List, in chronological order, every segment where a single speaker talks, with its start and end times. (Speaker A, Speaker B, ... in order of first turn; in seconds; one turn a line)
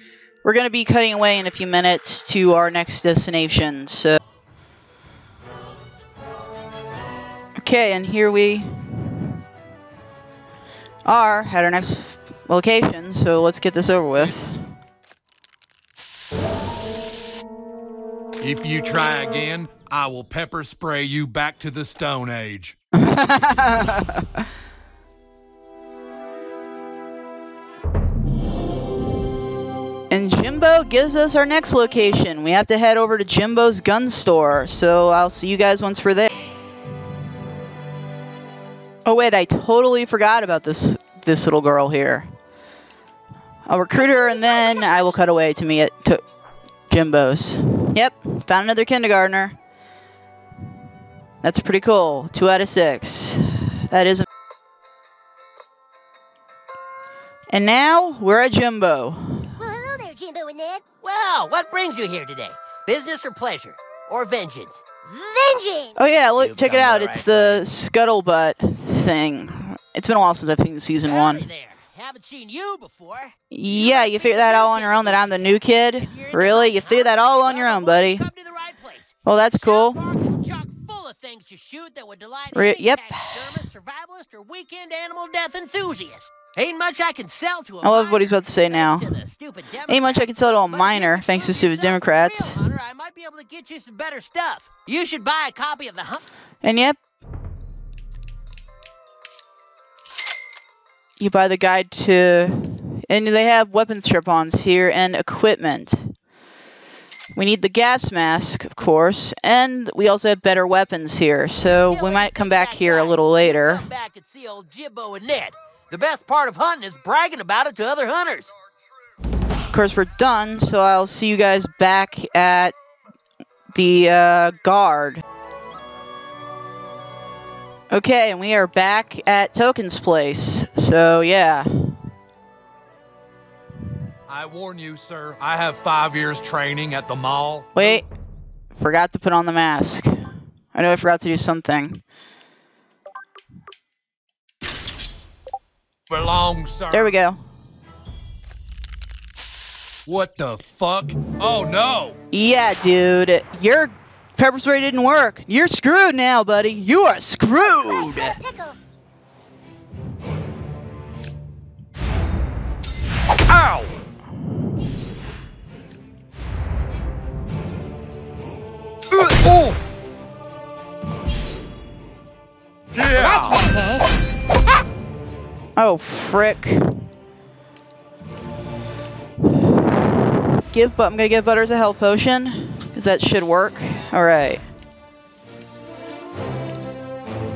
Speaker A: 0.4-4.2
Speaker A: 7.6-9.4
Speaker A: 11.0-14.5
Speaker B: 14.2-14.5
Speaker B: 18.4-22.8
Speaker A: 22.9-24.4
Speaker A: 30.1-36.3
Speaker A: 39.0-42.3
Speaker A: 43.7-46.2
Speaker C: 44.0-45.0
Speaker A: 46.9-49.5
Speaker A: 51.4-54.3
Speaker A: 57.5-59.5
Speaker C: 59.6-60.8
Speaker D: 61.0-64.9
Speaker C: 65.0-66.0
Speaker A: 66.0-71.5
Speaker D: 66.4-67.7
Speaker D: 71.0-96.2
Speaker A: 73.5-78.2
Speaker A: 79.2-80.0
Speaker A: 82.5-83.6
Speaker A: 87.8-89.1
Speaker A: 89.9-92.6
Speaker A: 96.6-97.0
Speaker A: 101.2-106.1
Speaker A: 107.3-113.8
Speaker D: 111.6-118.5
Speaker A: 119.7-122.7
Speaker A: 123.7-125.2
Speaker A: 127.9-132.0
Speaker B: 134.3-138.0
Speaker A: 137.7-138.1
Speaker A: 138.7-140.2
Speaker A: 140.7-142.0
Speaker B: 146.1-147.2
Speaker A: 146.9-147.4
Speaker B: 150.1-152.2
Speaker A: 152.3-158.4
Speaker C: 157.6-158.8
Speaker B: 163.5-163.9
Speaker B: 169.1-169.8
Speaker B: 172.9-173.7
Speaker C: 173.1-174.1
Speaker A: 175.8-176.9
Speaker A: 179.8-184.6